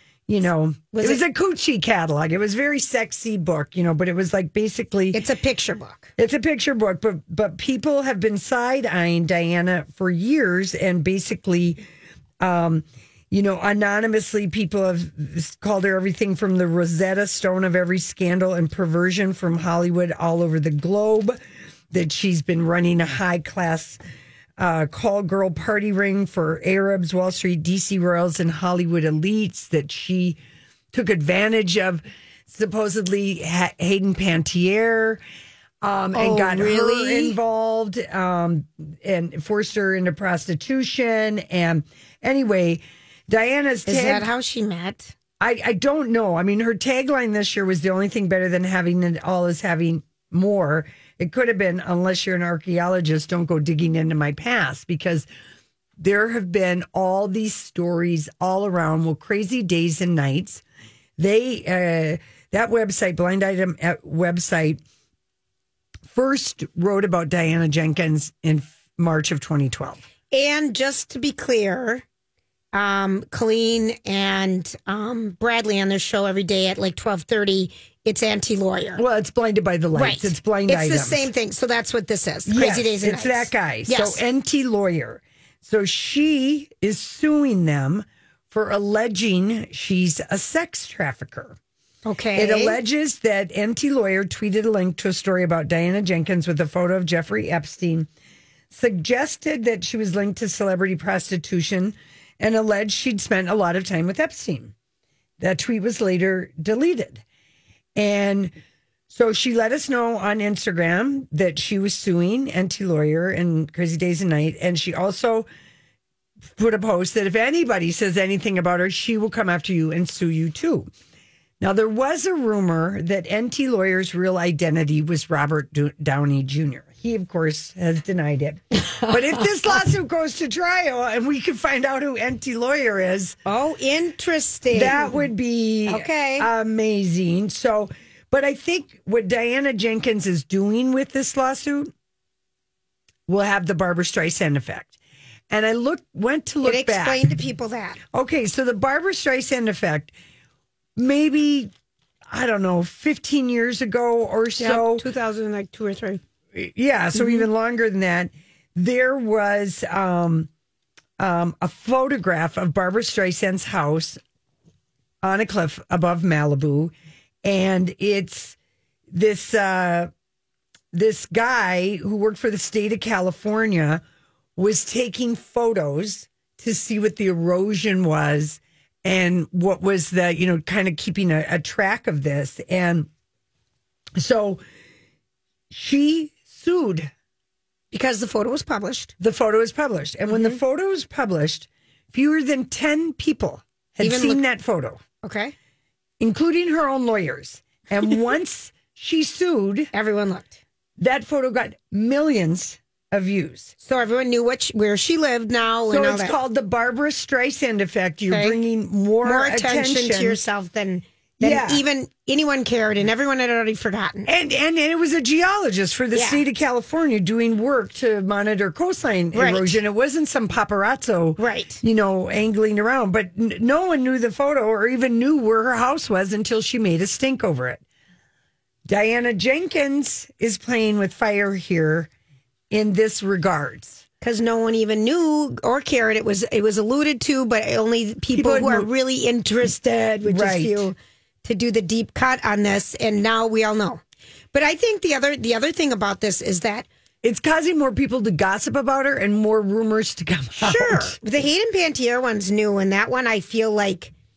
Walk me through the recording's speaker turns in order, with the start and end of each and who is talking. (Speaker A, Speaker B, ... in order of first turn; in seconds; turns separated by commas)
Speaker A: 0.3-5.2, Speaker B: 0.9-1.2, Speaker B: 5.1-6.1, Speaker A: 6.2-11.8, Speaker A: 12.4-21.4, Speaker A: 21.9-24.0, Speaker A: 24.6-30.4, Speaker A: 30.9-35.2, Speaker A: 35.8-44.3, Speaker B: 36.1-37.4, Speaker B: 43.9-45.1, Speaker A: 45.4-55.3, Speaker A: 56.0-60.6, Speaker A: 61.2-64.8, Speaker A: 66.1-70.0, Speaker B: 70.3-72.0, Speaker B: 72.7-79.0, Speaker A: 79.0-81.3, Speaker B: 79.9-84.2, Speaker A: 82.5-91.6, Speaker B: 92.0-92.8, Speaker A: 92.3-98.1, Speaker A: 98.7-104.7, Speaker A: 105.4-107.2, Speaker A: 108.0-108.5, Speaker A: 109.1-115.5, Speaker A: 116.5-120.9, Speaker A: 121.6-133.4, Speaker B: 128.9-129.4, Speaker B: 133.4-135.2, Speaker A: 134.7-141.9, Speaker B: 135.9-136.5, Speaker A: 143.3-144.9, Speaker A: 145.5-147.2, Speaker B: 146.6-148.0, Speaker A: 148.1-150.1, Speaker A: 150.9-151.7, Speaker A: 152.3-155.1, Speaker B: 154.6-156.2, Speaker A: 156.5-160.5, Speaker B: 157.1-157.4, Speaker A: 161.2-164.2, Speaker A: 165.2-166.9, Speaker A: 167.4-168.6, Speaker A: 169.1-170.1, Speaker A: 170.9-174.0, Speaker A: 174.6-183.1, Speaker A: 184.2-184.6, Speaker A: 185.7-187.1, Speaker B: 187.9-189.1, Speaker A: 189.2-195.0, Speaker B: 190.3-190.6, Speaker B: 194.0-194.4, Speaker B: 195.2-195.5, Speaker A: 196.2-199.9, Speaker B: 199.9-200.6, Speaker A: 201.0-203.7, Speaker B: 203.8-206.3, Speaker A: 205.9-210.4, Speaker B: 208.3-208.6, Speaker B: 209.2-214.3, Speaker A: 211.4-211.8, Speaker A: 214.2-227.8, Speaker B: 216.1-216.4, Speaker B: 219.3-219.8, Speaker B: 221.4-221.8, Speaker A: 228.8-232.1, Speaker A: 232.7-234.0, Speaker B: 234.2-244.0, Speaker A: 238.3-238.9, Speaker A: 239.7-240.9, Speaker B: 244.5-246.9, Speaker A: 247.2-251.2, Speaker B: 250.6-254.1